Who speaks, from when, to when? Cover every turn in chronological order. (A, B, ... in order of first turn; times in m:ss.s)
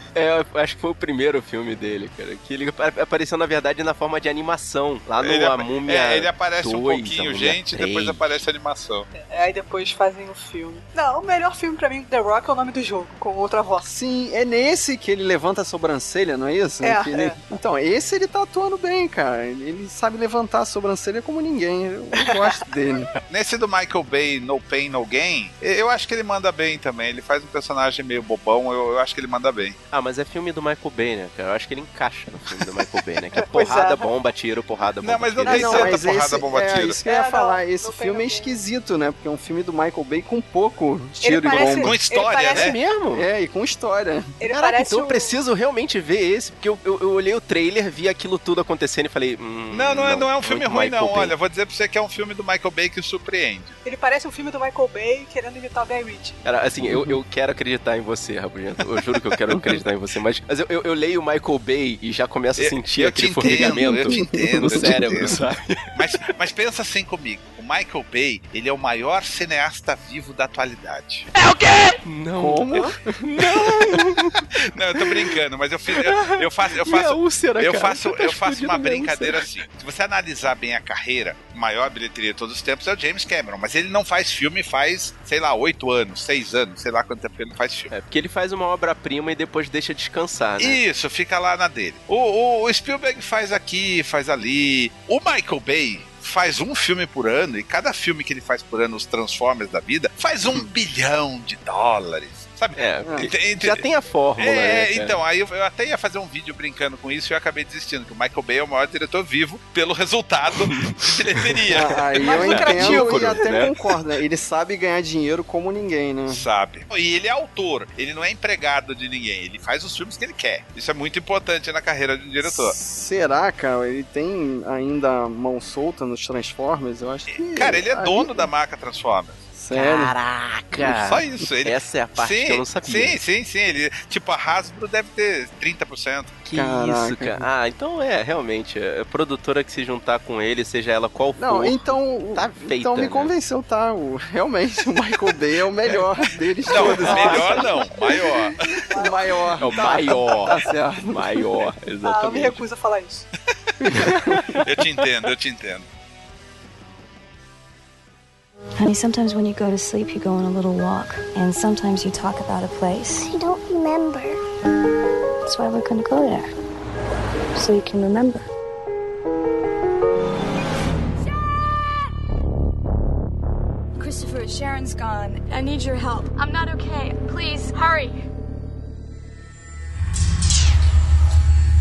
0:00.1-0:08.3 A
0:05.2-0:09.1 B
0:09.1-0:13.9 C
0:13.8-0:23.1 D
0:16.8-0:17.4 C
0:23.3-0:29.8 B
0:29.9-0:35.9 A
0:33.4-0:34.1 C
0:35.0-0:37.0 B
0:35.4-0:42.0 D
0:37.0-0:38.5 C
0:41.2-0:42.7 C
0:41.6-0:42.8 B
0:42.5-0:43.2 A
0:43.1-0:44.4 D
0:44.4-0:45.4 C
0:44.5-0:51.3 A
0:49.7-0:53.8 B
0:53.8-0:56.4 C
0:56.4-1:05.9 A
1:02.6-1:05.4 B
1:03.4-1:05.3 D
1:05.9-1:11.3 B
1:11.3-1:15.1 A
1:12.4-1:13.0 D
1:14.7-1:27.9 B
1:15.9-1:19.4 A
1:27.9-1:30.8 A
1:30.6-1:43.8 B
1:42.8-1:45.2 A
1:43.0-1:43.3 D
1:44.4-1:52.0 B
1:51.7-1:56.4 D
1:52.2-1:53.7 C
1:52.4-1:53.7 A
1:56.3-2:02.8 B
2:02.4-2:08.5 D
2:07.3-2:09.4 B
2:09.5-2:10.1 D
2:09.7-2:13.2 A
2:10.9-2:16.4 B
2:16.4-2:23.3 A
2:16.5-2:17.4 D
2:21.4-2:28.3 D
2:26.7-2:28.7 B
2:26.7-2:27.4 A
2:27.1-2:27.7 C
2:28.9-2:30.0 C
2:28.9-2:31.5 D
2:29.6-2:32.6 A
2:32.0-2:33.3 C
2:33.8-2:34.6 A
2:34.6-2:35.8 B
2:38.8-2:43.5 E
2:45.4-2:46.5 E
2:47.6-2:48.5 E
2:54.0-2:58.2 F